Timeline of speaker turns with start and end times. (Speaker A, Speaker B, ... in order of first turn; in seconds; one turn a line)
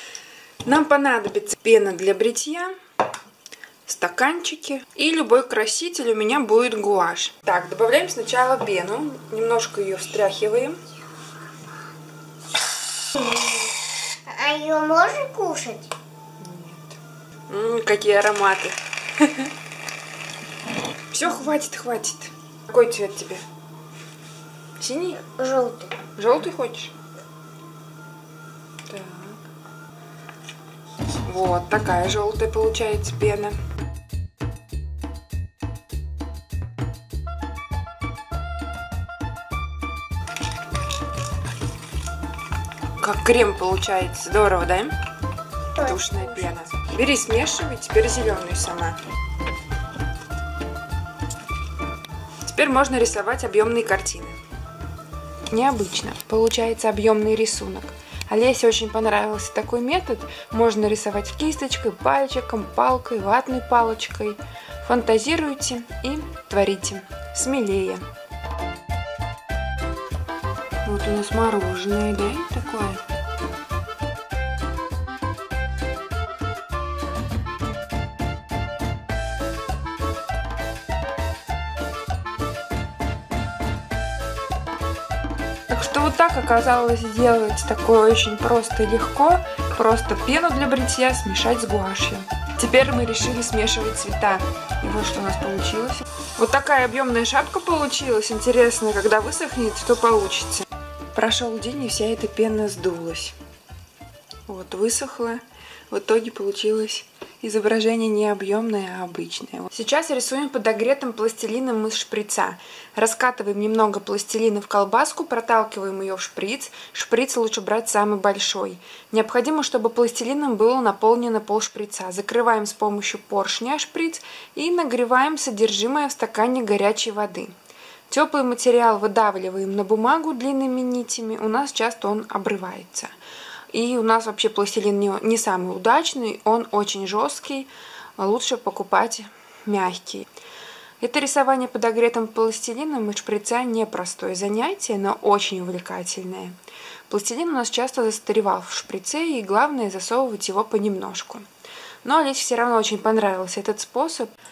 Speaker A: 0.6-2.7
Speaker A: 3.9-10.8
Speaker B: 13.1-15.9
Speaker A: 16.4-17.0
Speaker A: 17.5-19.5
Speaker A: 21.1-23.4
Speaker A: 24.8-25.3
Speaker B: 25.4-25.9
Speaker A: 26.1-26.9
Speaker A: 28.9-29.4
Speaker A: 31.2-33.6
Speaker A: 43.0-45.0
Speaker A: 45.8-49.0
Speaker B: 45.8-46.2
Speaker A: 52.4-54.4
Speaker A: 55.5-68.0
Speaker A: 70.8-73.0
Speaker A: 85.7-103.3
Speaker A: 104.5-127.5
Speaker A: 128.1-133.1
Speaker A: 133.7-140.3
Speaker A: 141.0-146.6
Speaker A: 147.1-151.5
Speaker A: 152.0-154.3